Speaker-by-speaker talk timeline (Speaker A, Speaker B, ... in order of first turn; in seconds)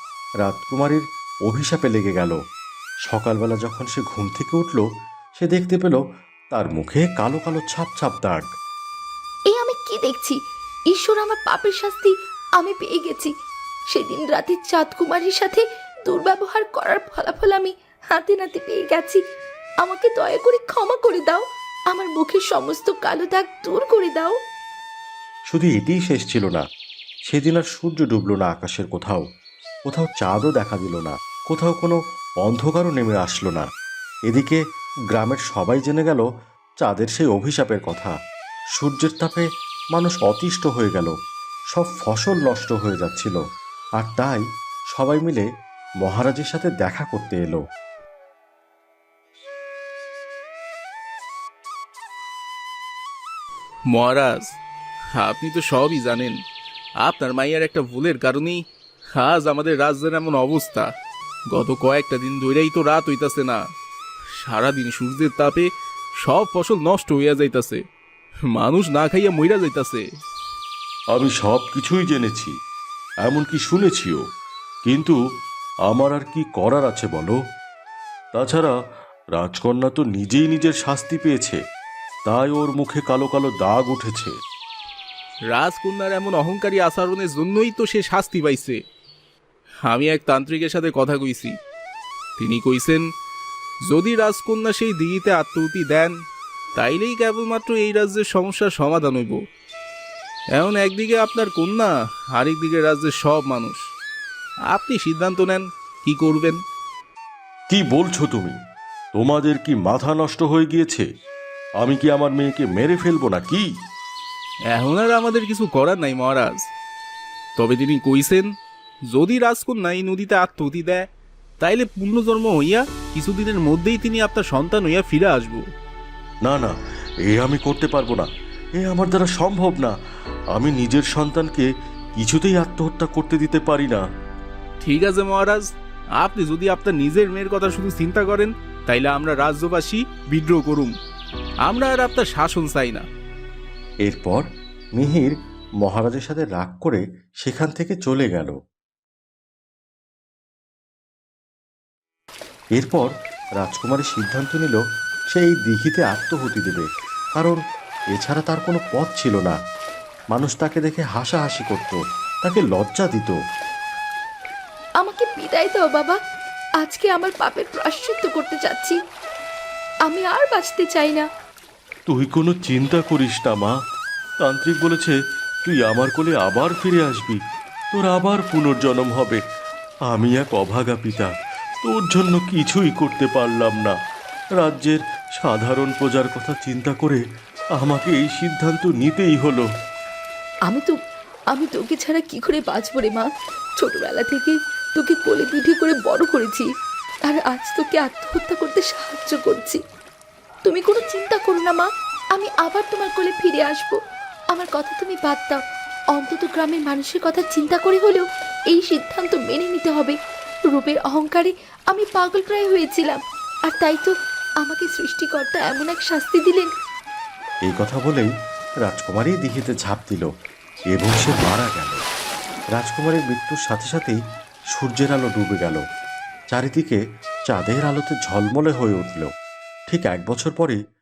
Speaker A: 0.4-2.4, 3.0-4.8, 5.4-6.0, 6.5-8.5, 25.5-26.6, 27.3-29.2, 29.9-33.7, 34.3-34.6, 35.1-36.2, 36.8-38.1, 38.8-41.1, 41.7-43.4, 44.0-45.5, 46.0-47.6, 71.1-72.5, 73.2-74.2, 74.8-75.2, 75.9-77.4, 78.3-78.7, 79.3-81.6, 82.2-84.3, 107.7-108.5, 109.1-111.0, 111.8-113.7, 126.4-129.9, 130.5-134.0, 144.0-148.5, 152.7-154.8, 155.3-156.8, 158.1-159.6, 160.3-163.3, 172.1-173.7, 174.4-177.4, 177.9-179.4, 180.1-183.9, 184.6-187.2, 187.8-189.7, 217.7-218.3, 218.8-220.3, 220.9-222.0, 222.7-224.2, 224.7-225.8, 226.5-229.3, 229.9-230.8
Speaker B: 9.5-10.4, 10.9-13.3, 13.9-19.2, 19.8-24.3, 165.0-166.2, 166.8-169.0, 170.1-171.2, 190.7-190.9, 191.5-196.7, 197.3-199.8, 200.6-204.0, 204.5-205.6, 206.1-210.2, 210.7-216.7
Speaker C: 53.9-54.6, 55.1-56.4, 57.0-60.9, 61.5-63.6, 64.4-67.8, 68.5-70.0, 85.5-88.8, 89.8-91.5, 92.4-93.0, 93.8-96.1, 96.7-99.4, 100.5-103.8, 104.7-106.6, 114.7-116.7, 117.6-118.5, 119.1-121.1, 121.6-125.7, 134.8-140.9, 141.6-143.1